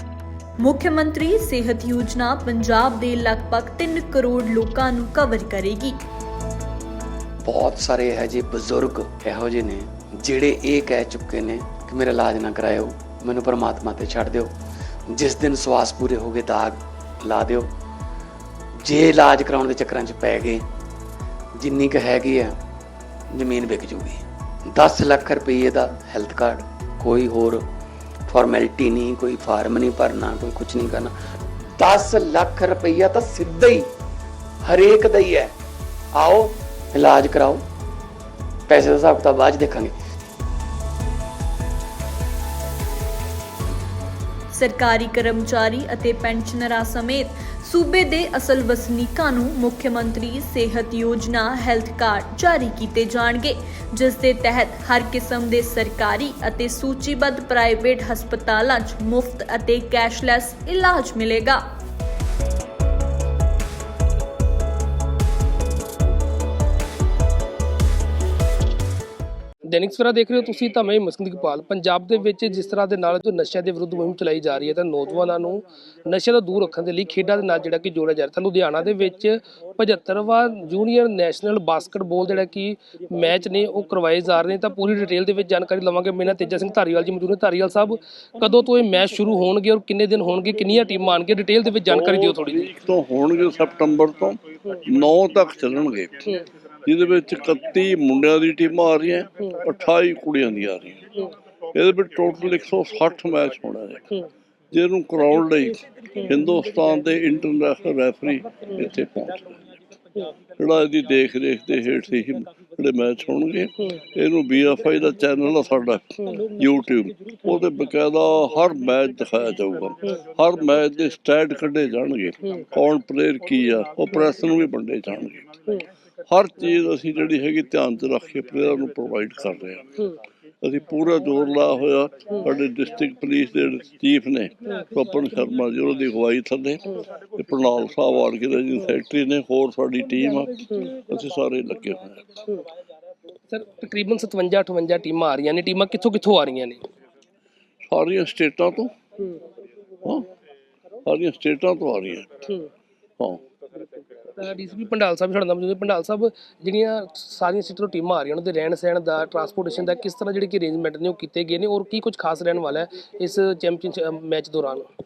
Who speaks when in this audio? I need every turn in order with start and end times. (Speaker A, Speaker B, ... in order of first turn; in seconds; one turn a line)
Speaker A: 0.6-6.0
Speaker B: 7.4-14.5
Speaker B: 15.1-17.7
Speaker B: 18.8-20.6
Speaker B: 21.5-22.6
Speaker B: 23.3-27.7
Speaker B: 28.3-31.1
Speaker B: 31.7-33.9
Speaker B: 34.6-35.5
Speaker B: 36.1-37.6
Speaker B: 38.7-39.9
Speaker A: 44.5-61.6
Speaker C: 69.7-92.7
Speaker D: 91.9-96.3
Speaker D: 96.8-101.0
Speaker D: 101.7-104.1
Speaker D: 104.7-109.6
Speaker D: 110.6-125.4
Speaker D: 126.3-129.9
Speaker D: 130.6-142.2
Speaker C: 143.5-146.8
Speaker D: 147.9-148.9
Speaker D: 151.1-152.3
Speaker C: 154.2-164.9